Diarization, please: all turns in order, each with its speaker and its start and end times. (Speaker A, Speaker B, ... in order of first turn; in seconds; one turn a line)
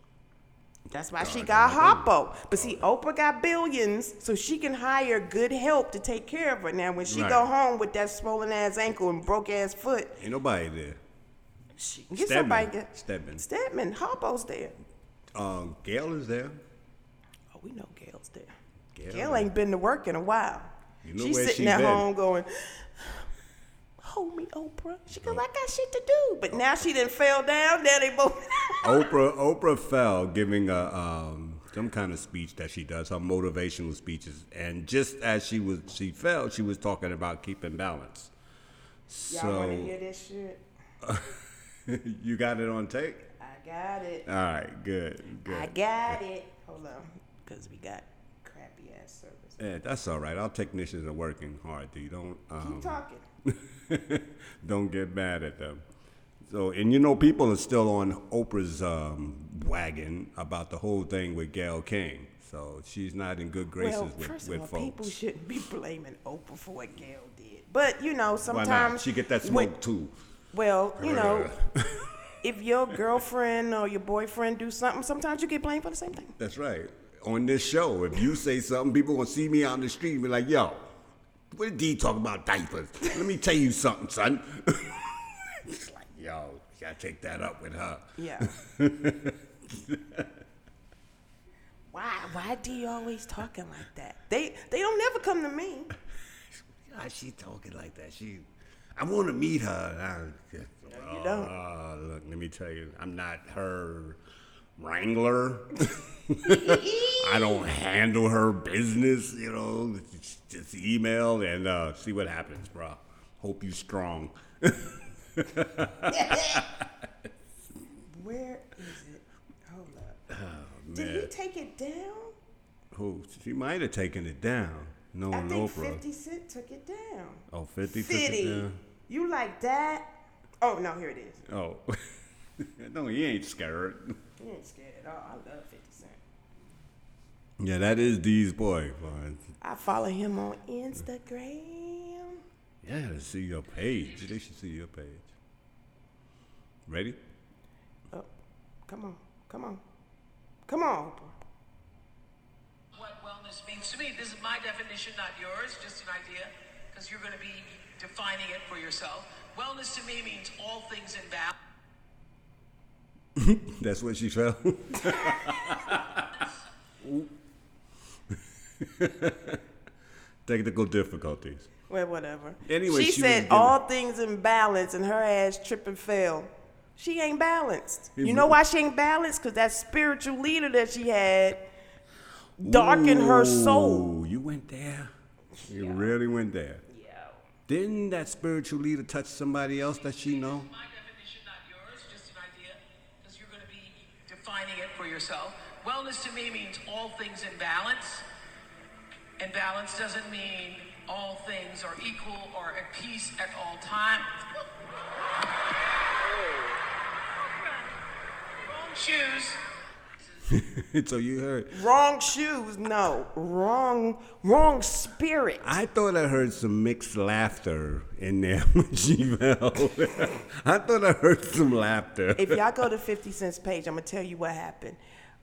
Speaker A: 0.9-10.2
Speaker B: 1.2-2.8
Speaker B: 7.0-7.5
Speaker B: 10.2-11.0
Speaker A: 11.8-14.7
Speaker B: 12.1-13.4
Speaker B: 15.3-16.6
Speaker A: 17.5-18.5
Speaker B: 18.9-19.5
Speaker A: 19.1-23.3
Speaker B: 21.0-22.1
Speaker A: 24.0-29.1
Speaker B: 28.8-38.3
Speaker B: 39.1-39.9
Speaker A: 39.3-40.6
Speaker B: 41.0-43.2
Speaker A: 43.4-44.3
Speaker B: 44.2-45.7
Speaker A: 45.4-49.6
Speaker B: 49.6-55.8
Speaker A: 52.6-53.2
Speaker B: 56.4-65.1
Speaker A: 63.8-69.7
Speaker B: 68.4-70.1
Speaker A: 70.5-71.5
Speaker B: 71.0-72.3
Speaker A: 72.4-76.3
Speaker B: 76.3-80.9
Speaker B: 81.5-90.3
Speaker A: 88.2-88.5
Speaker A: 91.9-95.9
Speaker B: 96.8-104.2
Speaker A: 100.9-101.5
Speaker B: 104.8-116.9
Speaker A: 106.4-107.6
Speaker A: 116.1-116.6
Speaker A: 118.1-120.2
Speaker B: 120.3-121.3
Speaker A: 120.9-122.3
Speaker B: 122.9-126.0
Speaker A: 125.3-130.1
Speaker B: 127.5-128.8
Speaker A: 130.6-131.4
Speaker B: 131.4-134.2
Speaker A: 134.4-136.2
Speaker B: 137.6-139.4
Speaker A: 139.6-142.4
Speaker B: 142.8-145.3
Speaker B: 146.8-147.2
Speaker A: 148.9-149.8
Speaker A: 150.7-151.3
Speaker C: 152.9-161.5
Speaker B: 163.3-166.3
Speaker B: 167.0-167.3
Speaker B: 168.3-169.6
Speaker B: 170.4-171.7
Speaker A: 171.9-181.7
Speaker B: 172.6-173.8
Speaker B: 178.2-178.6
Speaker A: 182.6-184.1
Speaker B: 182.6-185.1
Speaker A: 185.6-186.1
Speaker B: 185.7-186.8
Speaker A: 186.9-187.4
Speaker B: 187.7-190.7
Speaker C: 190.3-198.2
Speaker C: 199.4-204.2
Speaker C: 207.6-207.9
Speaker C: 208.6-209.6
Speaker B: 210.5-211.8
Speaker A: 211.7-215.7
Speaker B: 215.6-222.7
Speaker A: 222.4-225.0